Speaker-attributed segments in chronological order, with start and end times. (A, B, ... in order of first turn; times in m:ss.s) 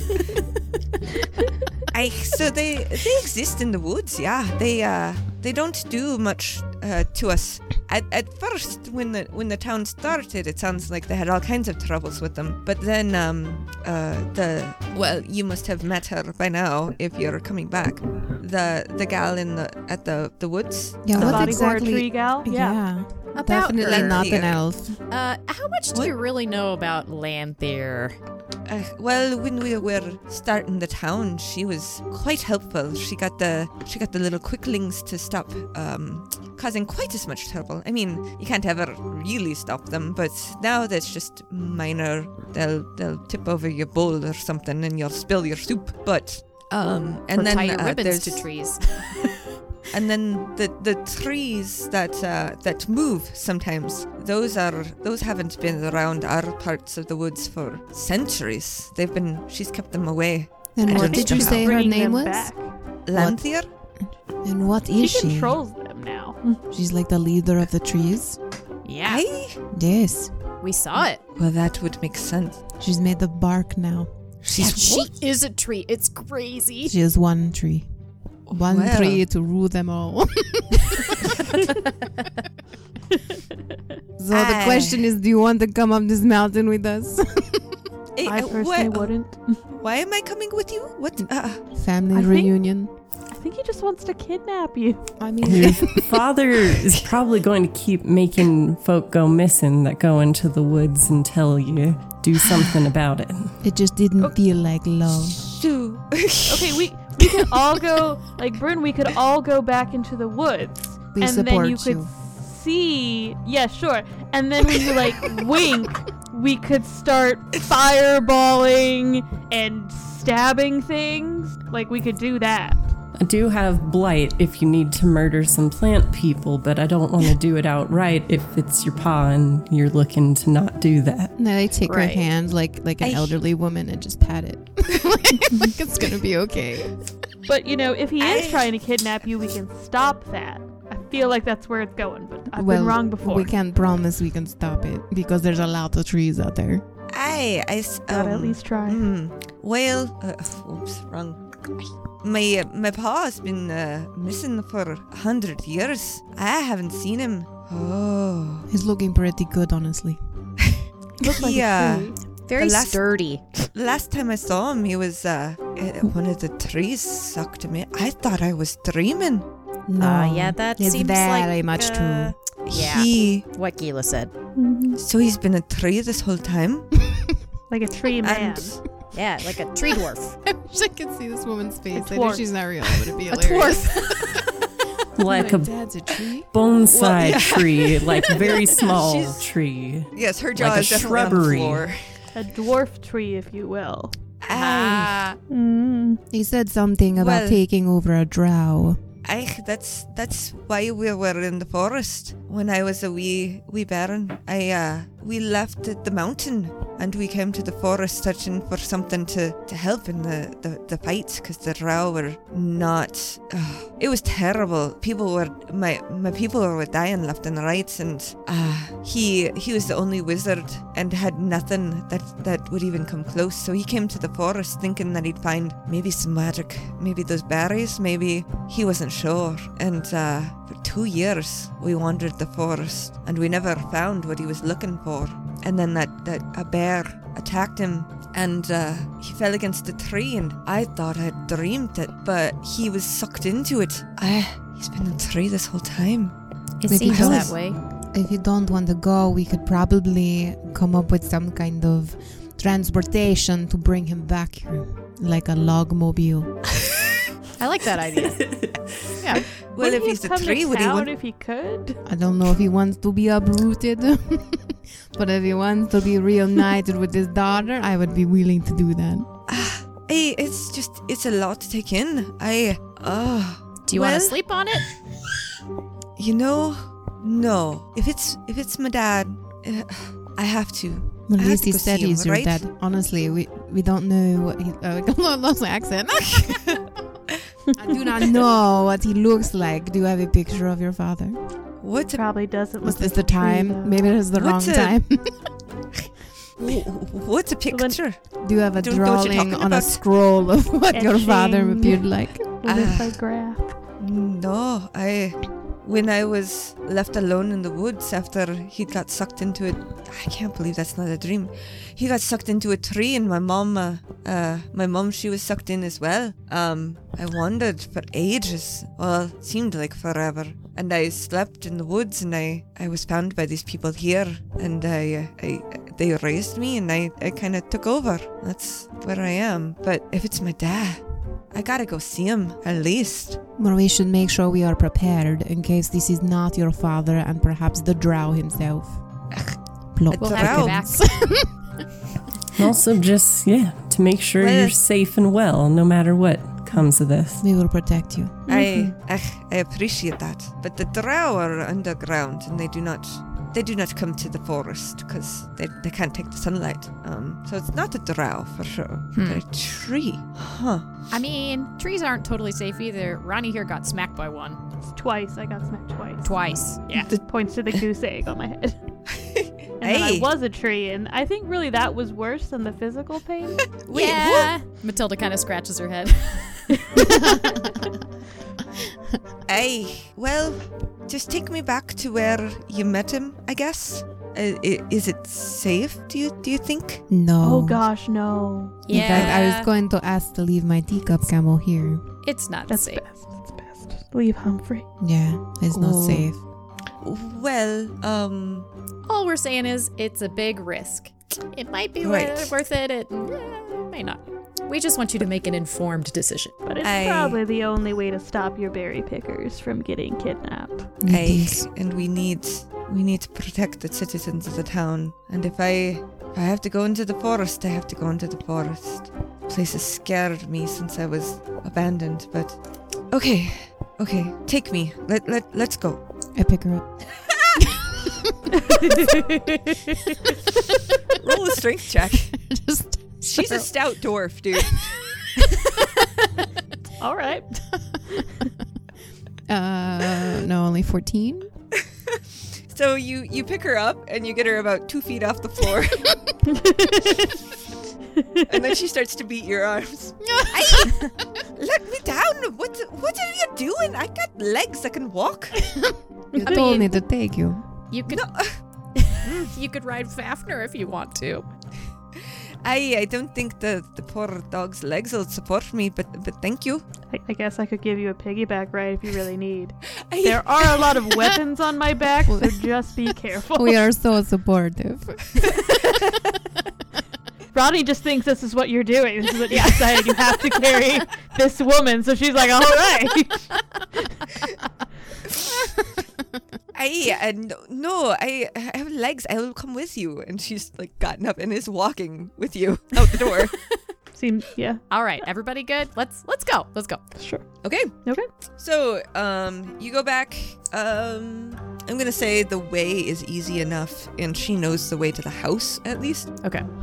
0:01.9-0:21.6 A
0:21.0-0:25.0 B
0:21.2-0:22.9 C
0:23.4-0:24.3 D
0:23.8-0:24.6 A
0:25.1-0:28.2 D
0:28.7-0:48.5 A
0:47.3-0:49.3 D
0:49.9-1:01.7 A
1:00.8-1:02.5 B
1:00.9-1:02.6 C
1:03.1-1:03.7 A
1:03.1-1:03.5 B
1:04.4-1:05.6 B
1:05.0-1:06.6 C
1:06.7-1:08.4 B
1:08.8-1:09.2 D
1:09.0-1:09.6 A
1:09.7-1:10.3 B
1:10.6-1:11.2 D
1:11.3-1:12.6 A
1:12.8-1:15.1 B
1:14.5-1:15.0 A
1:14.6-1:17.0 D
1:16.8-1:17.9 B
1:18.5-1:19.2 A
1:18.5-1:21.4 B
1:24.2-1:27.8 B
1:24.3-1:25.1 A
1:28.2-1:29.1 A
1:28.3-1:29.6 C
1:29.7-1:31.6 A
1:31.7-1:32.9 B
1:32.1-1:32.5 C
1:33.3-1:35.2 C
1:35.2-1:36.1 B
1:35.4-1:43.6 E
1:43.6-1:45.4 B
1:45.2-1:47.5 A
1:46.5-2:02.8 C
1:51.1-1:52.1 B
2:03.2-2:11.3 E
2:11.4-2:17.0 B
2:11.8-2:12.3 D
2:13.0-2:13.4 A
2:17.5-2:23.5 C
2:18.2-2:18.7 A
2:22.5-2:26.8 B
2:27.1-2:38.7 A
2:28.1-2:29.1 C
2:38.7-2:40.2 B
2:40.7-2:43.0 A
2:41.2-2:41.5 B
2:41.2-2:42.2 C
2:42.5-2:43.4 D
2:43.6-2:49.5 A
2:49.9-2:52.4 B
2:50.0-2:54.3 D
2:52.7-2:53.4 A
2:54.6-2:55.0 C
2:55.0-2:57.0 A
2:57.7-2:58.8 C
2:58.2-2:58.8 A
2:59.1-3:00.4 D
3:00.4-3:04.4 B
3:01.9-3:02.5 C
3:03.3-3:04.4 D
3:05.2-3:05.8 E
3:05.3-3:06.5 B
3:06.5-3:11.9 E
3:06.9-3:09.5 A
3:10.1-3:12.0 A
3:12.3-3:14.1 C
3:14.4-3:15.2 A
3:14.5-3:15.4 D
3:15.5-3:16.2 C
3:16.3-3:19.0 B
3:17.2-3:17.6 A
3:19.2-4:06.4 A
4:06.8-4:07.8 D
4:06.9-4:16.6 B
4:07.0-4:07.5 A
4:17.6-4:18.6 D
4:18.2-4:19.2 E
4:19.2-4:19.4 D
4:19.3-4:22.0 C
4:19.7-4:21.1 A
4:22.0-4:29.3 B
4:29.5-4:34.4 A
4:33.9-4:34.9 D
4:36.2-4:42.6 A
4:41.3-4:46.9 B
4:47.8-4:51.4 B
4:51.8-4:52.2 A
4:52.1-4:54.1 C
4:52.8-4:55.5 B
4:54.4-4:55.0 A
4:56.6-4:58.2 A
4:57.7-4:58.0 C
4:58.4-5:02.9 B
4:58.8-5:00.0 A
5:00.9-5:03.8 C
5:02.7-5:03.2 A
5:04.0-5:33.4 A
5:33.6-5:39.0 B
5:40.0-5:41.5 B
5:40.1-5:40.8 A
5:40.2-5:41.1 D
5:42.6-5:47.4 E
5:44.4-5:44.8 A
5:47.4-5:48.5 B
5:48.5-5:48.9 C
5:48.5-6:00.9 A
5:59.2-5:59.4 D
6:01.1-6:04.6 D
6:04.9-6:06.3 C
6:06.2-6:07.1 D
6:06.9-6:08.8 C
6:09.1-6:10.3 A
6:09.8-6:13.7 C
6:13.8-6:14.5 A
6:13.9-6:17.2 D
6:16.9-6:17.2 C
6:17.0-6:17.7 B
6:19.5-6:27.0 A
6:27.1-6:27.8 B
6:27.4-6:28.9 C
6:28.9-6:29.7 D
6:28.9-6:32.1 B
6:29.0-6:29.4 A
6:32.2-6:33.0 D
6:32.7-6:34.9 C
6:35.0-6:36.4 B
6:35.7-6:36.3 A
6:37.0-6:38.7 A
6:39.1-6:46.6 D
6:42.0-6:42.5 A
6:46.6-6:51.0 C
6:46.8-6:47.4 A
6:51.0-6:51.7 B
6:51.1-7:02.6 A
7:03.1-7:06.0 A
7:06.4-7:06.9 B
7:07.6-7:08.3 B
7:08.6-7:09.4 C
7:09.1-7:09.4 D
7:11.1-7:12.4 A
7:12.3-7:13.7 B
7:13.2-7:15.0 A
7:17.0-7:18.5 C
7:19.5-7:21.5 B
7:22.1-7:26.3 A
7:26.5-7:27.3 C
7:28.2-7:28.6 C
7:28.5-7:35.7 A
7:30.2-7:31.1 B
7:35.7-7:37.6 B
7:36.4-7:36.7 C
7:36.4-7:36.9 D
7:37.9-7:38.3 D
7:38.1-7:38.6 A
7:39.0-7:41.5 D
7:39.2-7:39.5 A
7:42.6-7:46.8 A
7:47.1-7:53.8 C
7:50.1-7:51.0 A
7:52.3-7:52.6 B
7:53.5-7:55.6 B
7:57.5-8:03.6 C
8:06.7-8:13.5 A
8:14.2-8:14.9 C
8:14.9-8:17.0 D
8:17.2-8:17.5 C
8:17.6-8:17.9 A
8:18.0-8:18.3 C
8:18.6-8:26.4 A